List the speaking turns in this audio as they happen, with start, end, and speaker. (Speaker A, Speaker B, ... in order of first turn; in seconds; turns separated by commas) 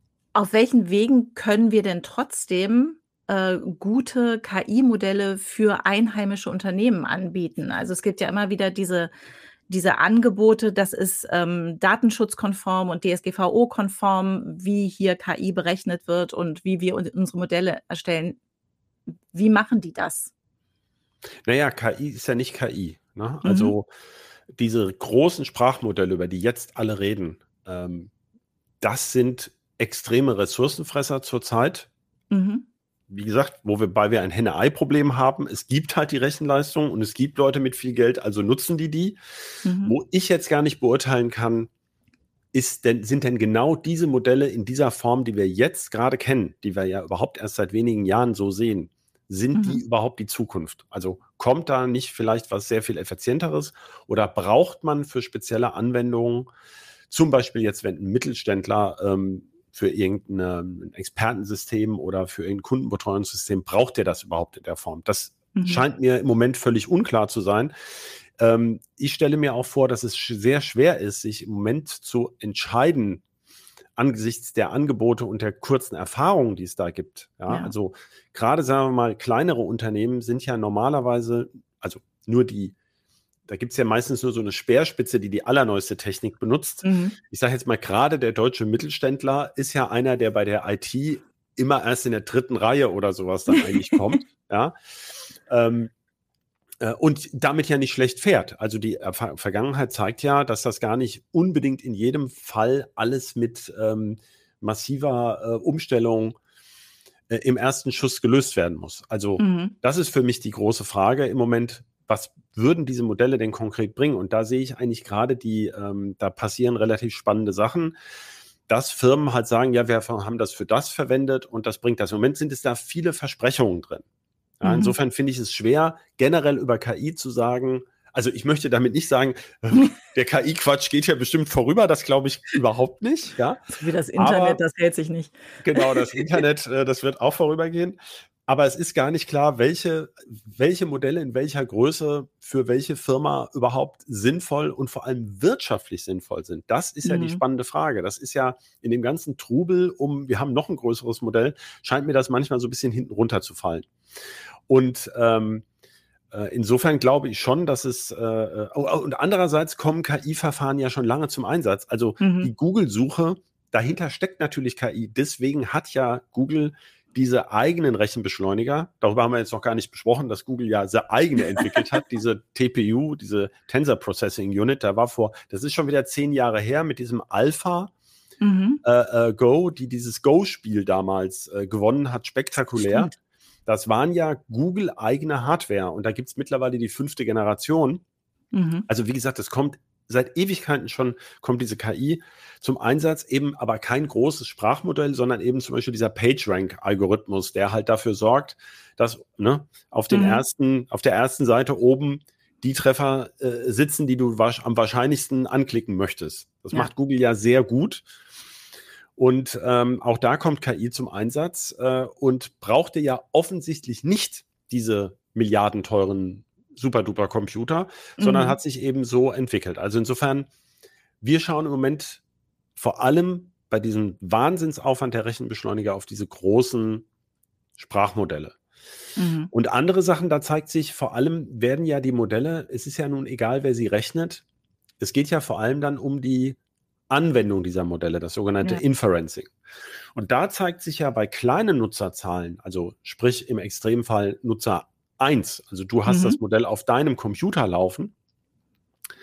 Speaker A: 0.3-9.1, Speaker A: 9.7-18.4, Speaker A: 19.3-20.3, Speaker B: 21.5-23.9, Speaker A: 23.4-23.8, Speaker B: 24.5-28.1, Speaker B: 28.8-31.9, Speaker A: 32.3-32.7, Speaker B: 33.1-39.2, Speaker A: 39.6-40.0, Speaker B: 39.8-41.7, Speaker B: 42.5-56.5, Speaker A: 49.5-49.8, Speaker B: 57.1-67.7, Speaker A: 65.5-65.8, Speaker B: 68.4-73.2, Speaker B: 74.0-82.8, Speaker B: 83.5-94.7, Speaker A: 86.8-87.2, Speaker A: 93.6-94.2, Speaker B: 95.4-95.9, Speaker B: 96.8-106.3, Speaker B: 107.3-117.9, Speaker A: 109.4-109.7, Speaker B: 118.7-124.0, Speaker B: 124.6-133.6, Speaker A: 124.6-125.0, Speaker A: 133.7-136.2, Speaker B: 134.2-134.6, Speaker B: 135.6-153.9, Speaker A: 147.1-147.4, Speaker B: 154.7-155.7, Speaker B: 156.3-177.9, Speaker A: 162.2-162.5, Speaker A: 178.4-178.8, Speaker B: 178.8-183.1, Speaker A: 182.8-183.1, Speaker B: 183.7-188.0, Speaker A: 188.5-188.9, Speaker B: 188.9-208.1, Speaker A: 200.1-200.4, Speaker B: 209.2-220.5, Speaker A: 218.2-218.6, Speaker B: 221.2-222.2, Speaker B: 222.8-227.1, Speaker B: 227.8-228.6, Speaker A: 229.2-229.5, Speaker B: 229.5-234.4, Speaker B: 235.0-236.6, Speaker B: 237.1-239.5, Speaker B: 240.2-248.1, Speaker A: 246.1-246.4